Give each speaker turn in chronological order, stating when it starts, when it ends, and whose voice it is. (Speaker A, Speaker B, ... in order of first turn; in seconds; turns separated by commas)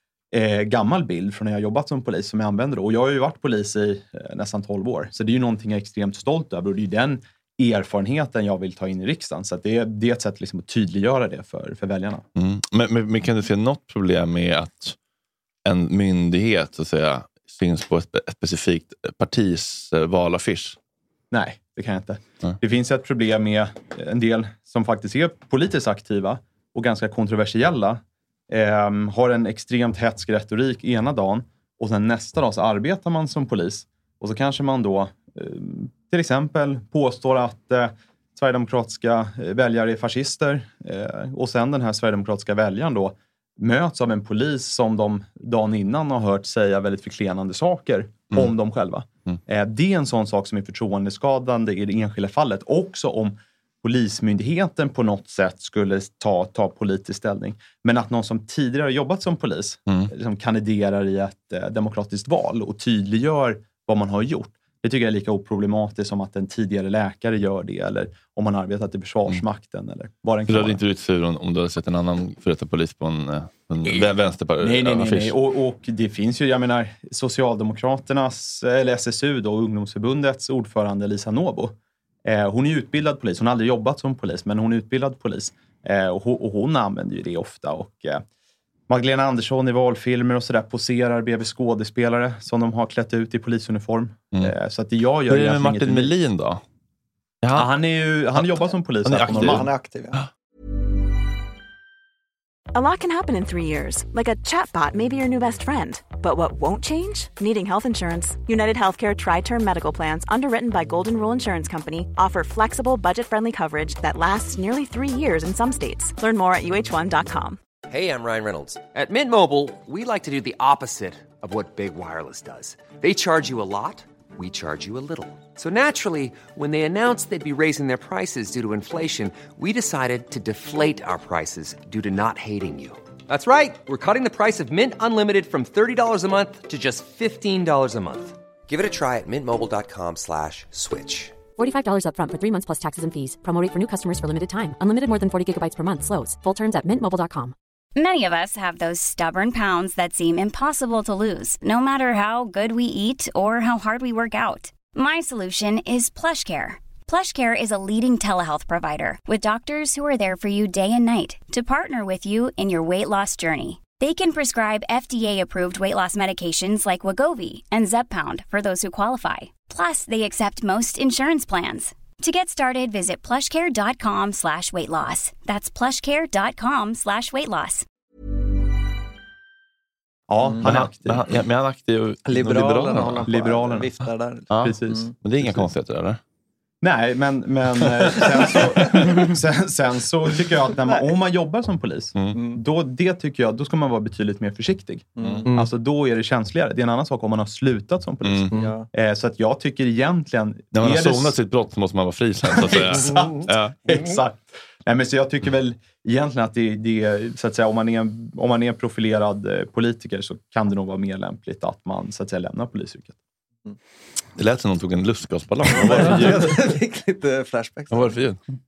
Speaker A: 0.3-12.2, Speaker B: 12.4-15.0, Speaker B: 15.7-20.8, Speaker A: 21.3-70.8, Speaker B: 70.5-75.4, Speaker A: 74.6-88.2, Speaker A: 88.9-96.1, Speaker B: 95.3-96.6, Speaker B: 97.4-97.7, Speaker A: 97.5-99.7, Speaker B: 99.0-99.7, Speaker C: 99.2-100.2, Speaker D: 102.7-117.6, Speaker E: 117.9-141.4, Speaker F: 141.6-147.6, Speaker G: 148.0-177.8, Speaker A: 180.3-181.2, Speaker B: 180.6-183.3, Speaker C: 182.3-185.2, Speaker A: 183.3-183.9, Speaker B: 184.5-186.2, Speaker A: 184.6-185.0, Speaker A: 186.8-201.4, Speaker C: 192.3-192.6, Speaker C: 195.2-195.7, Speaker B: 198.2-198.6, Speaker C: 198.5-198.9, Speaker B: 200.7-203.8, Speaker A: 202.5-213.2, Speaker B: 214.4-216.8, Speaker C: 215.7-218.2, Speaker B: 217.9-218.4